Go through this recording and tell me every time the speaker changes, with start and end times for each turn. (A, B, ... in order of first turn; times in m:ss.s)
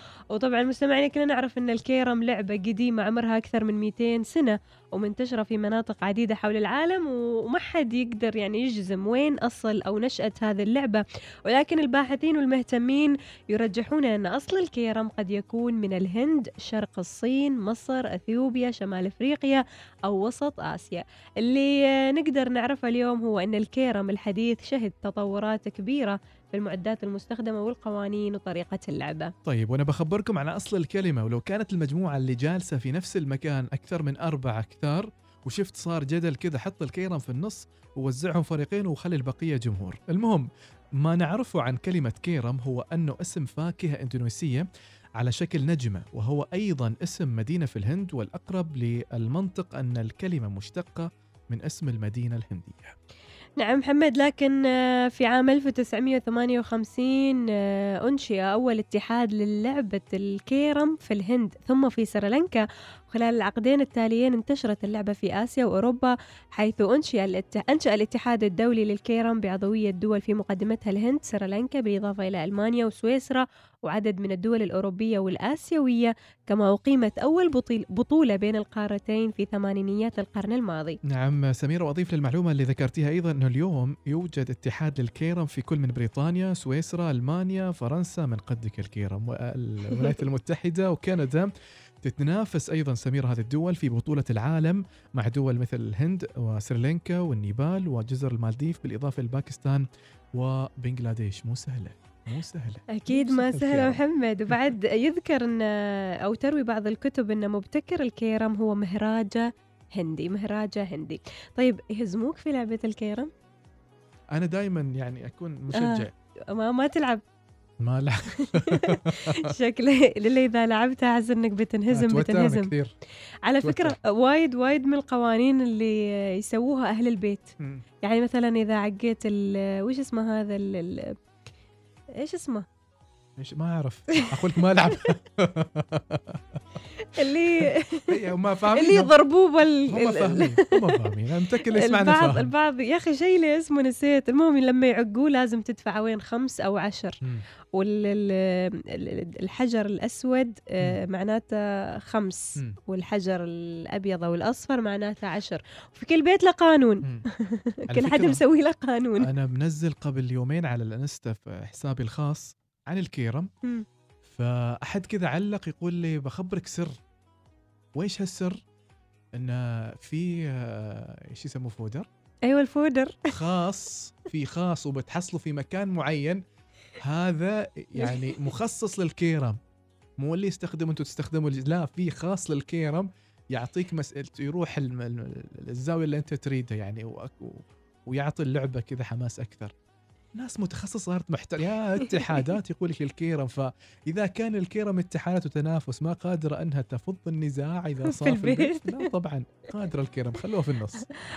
0:00.3-0:29.3 A
0:29.4-0:40.5 B
0:41.0-0:44.6 B
0:45.2-0:52.9 B
0:53.6-1:21.0 A
1:21.1-1:31.5 B
1:32.0-1:44.6 B
1:42.9-1:53.3 A
1:54.3-1:56.1 B
1:55.7-1:57.2 A
1:57.8-1:59.5 B
1:58.5-2:02.7 A
2:01.9-2:02.9 B
2:03.4-2:11.1 A
2:03.6-2:04.0 B
2:12.2-2:12.6 A
2:13.4-2:16.4 B
2:17.1-2:18.1 A
2:18.1-2:19.1 B
2:18.7-2:20.9 A
2:19.9-2:22.5 B
2:21.8-2:27.2 A
2:27.7-2:39.3 A
2:37.9-2:38.4 B
2:39.2-2:43.5 B
2:44.2-2:47.0 B
2:48.0-2:48.6 B
2:49.4-2:52.1 B
2:52.4-2:53.2 A
2:53.3-2:56.4 B
2:57.0-2:59.6 B
3:00.2-3:09.7 B
3:10.4-3:21.0 B
3:18.1-3:19.0 A